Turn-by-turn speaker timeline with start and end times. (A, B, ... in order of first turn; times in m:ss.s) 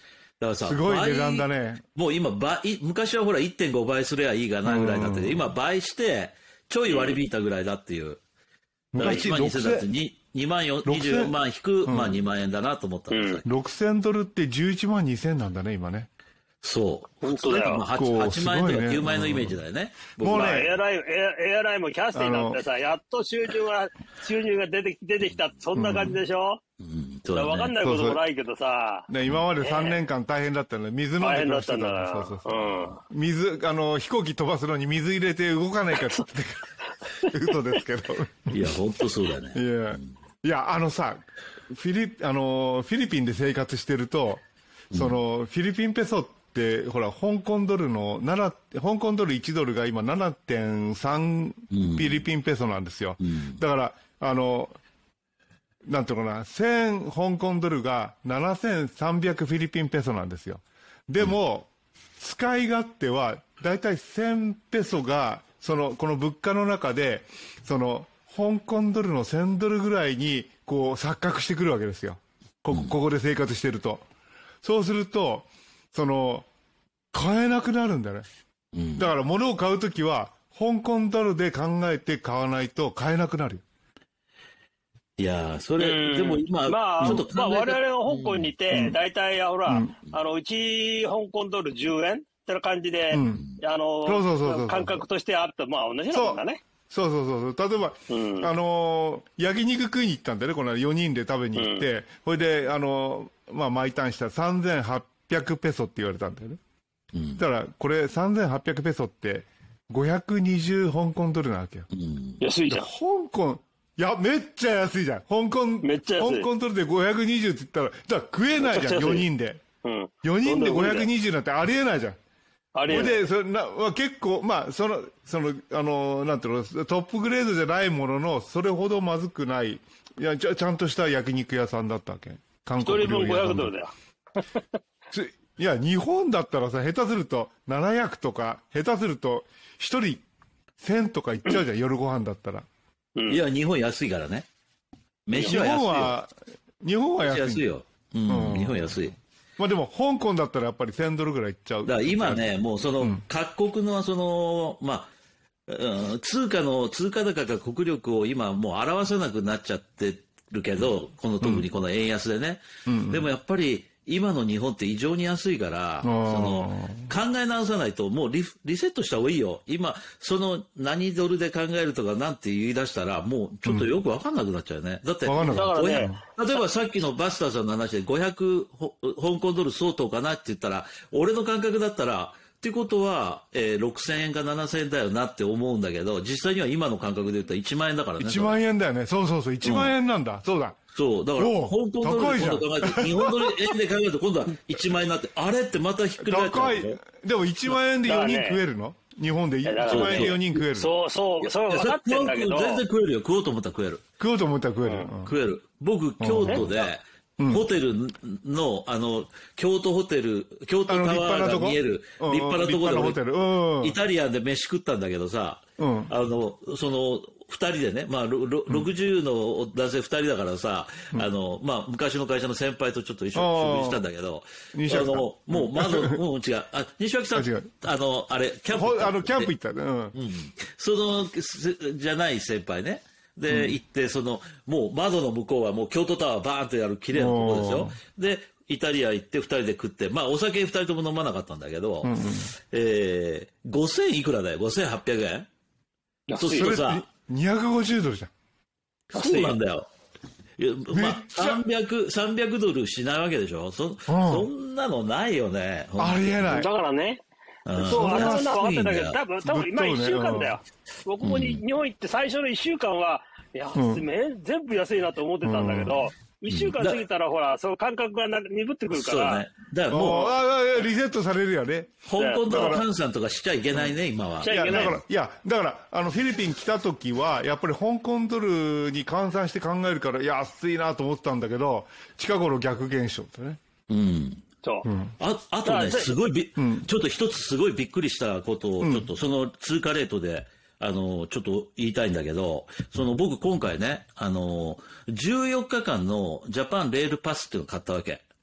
0:00.4-0:08.2 A
0:00.6-0:01.8 B
0:04.6-0:05.4 B
0:06.9-0:07.2 C
0:08.9-0:09.8 B
0:09.0-0:13.4 A
0:10.8-0:12.2 B
0:13.1-0:13.4 C
0:13.4-0:16.1 B
0:16.6-0:20.7 A
0:17.2-0:17.8 C
0:17.9-0:19.6 B
0:20.2-0:20.7 B
0:20.2-0:26.6 C
0:22.1-0:22.6 B
0:25.7-0:26.2 B
0:26.8-0:27.8 A
0:27.3-0:29.1 C
0:27.8-0:28.2 B
0:29.1-0:36.7 B
0:29.6-0:30.0 C
0:31.2-0:33.0 C
0:37.2-0:38.7 B
0:38.5-0:40.1 A
0:39.5-0:54.7 B
0:44.9-0:45.2 A
0:51.7-0:52.2 A
0:53.2-0:53.6 A
0:55.9-1:14.0 B
1:14.6-1:16.5 B
1:17.1-1:18.2 B
1:18.7-1:19.1 A
1:19.0-1:23.6 B
1:25.2-1:28.5 A
1:25.8-1:36.6 C
1:28.7-1:29.0 B
1:29.7-1:29.9 B
1:33.1-1:33.4 B
1:34.0-1:35.0 B
1:36.1-1:46.6 B
1:38.1-1:38.5 C
1:41.5-1:41.8 C
1:47.1-1:47.4 A
1:47.4-1:51.9 B
1:51.9-1:52.4 A
1:52.4-1:52.9 C
1:52.7-1:59.6 B
1:55.8-1:56.5 C
1:58.6-1:59.2 C
1:59.8-2:01.1 C
2:00.2-2:02.2 B
2:02.7-2:03.2 C
2:02.9-2:13.7 B
2:12.8-2:13.9 C
2:15.1-2:20.2 B
2:20.8-2:22.6 B
2:23.3-2:24.4 A
2:25.2-2:26.2 A
2:25.4-2:27.6 B
2:27.2-2:29.2 A
2:28.3-2:28.8 B
2:29.6-2:32.5 B
2:31.8-2:35.1 A
2:35.7-3:08.6 A
2:42.8-2:43.2 B
2:46.0-2:47.1 B
2:55.2-2:56.2 B
2:55.5-2:56.1 C
3:08.2-3:10.8 B
3:09.6-3:10.0 A
3:10.9-3:17.0 A
3:11.4-3:13.8 B
3:16.2-3:20.9 B
3:18.0-3:18.6 C
3:19.6-3:22.8 C
3:19.9-3:20.4 A
3:21.4-3:24.0 A
3:24.2-3:25.3 B
3:25.2-3:33.2 A
3:26.2-3:27.6 B
3:30.9-3:34.0 B
3:33.8-3:49.5 A
3:35.8-3:36.1 B
3:43.3-3:44.0 B
3:44.7-3:46.2 B
3:47.3-3:47.7 B
3:48.7-3:50.1 B
3:50.1-4:02.2 A
3:53.5-3:53.8 B
3:57.1-3:58.0 B
4:02.0-4:02.5 B
4:02.7-4:05.5 A
4:06.3-4:06.8 C
4:06.4-4:07.0 A
4:06.5-4:08.3 B
4:09.1-4:09.9 A
4:09.1-4:09.6 C
4:10.6-4:16.6 A
4:10.9-4:11.6 B
4:14.1-4:14.5 B
4:16.0-4:16.7 B
4:16.4-4:17.2 C
4:17.6-4:19.2 A
4:17.8-4:29.4 C
4:17.8-4:18.5 B
4:19.4-4:20.6 B
4:21.2-4:21.6 A
4:23.7-4:24.0 B
4:25.4-4:25.9 B
4:26.5-4:27.0 A
4:28.9-4:30.3 A
4:29.9-4:32.8 B
4:32.0-4:35.0 A
4:32.2-4:32.8 C
4:34.4-4:35.0 C
4:34.4-4:43.6 B
4:43.9-4:44.4 A
4:44.8-4:45.1 B
4:45.2-4:58.2 A
4:45.6-4:46.1 C
4:46.6-4:46.8 B
4:48.8-4:49.1 B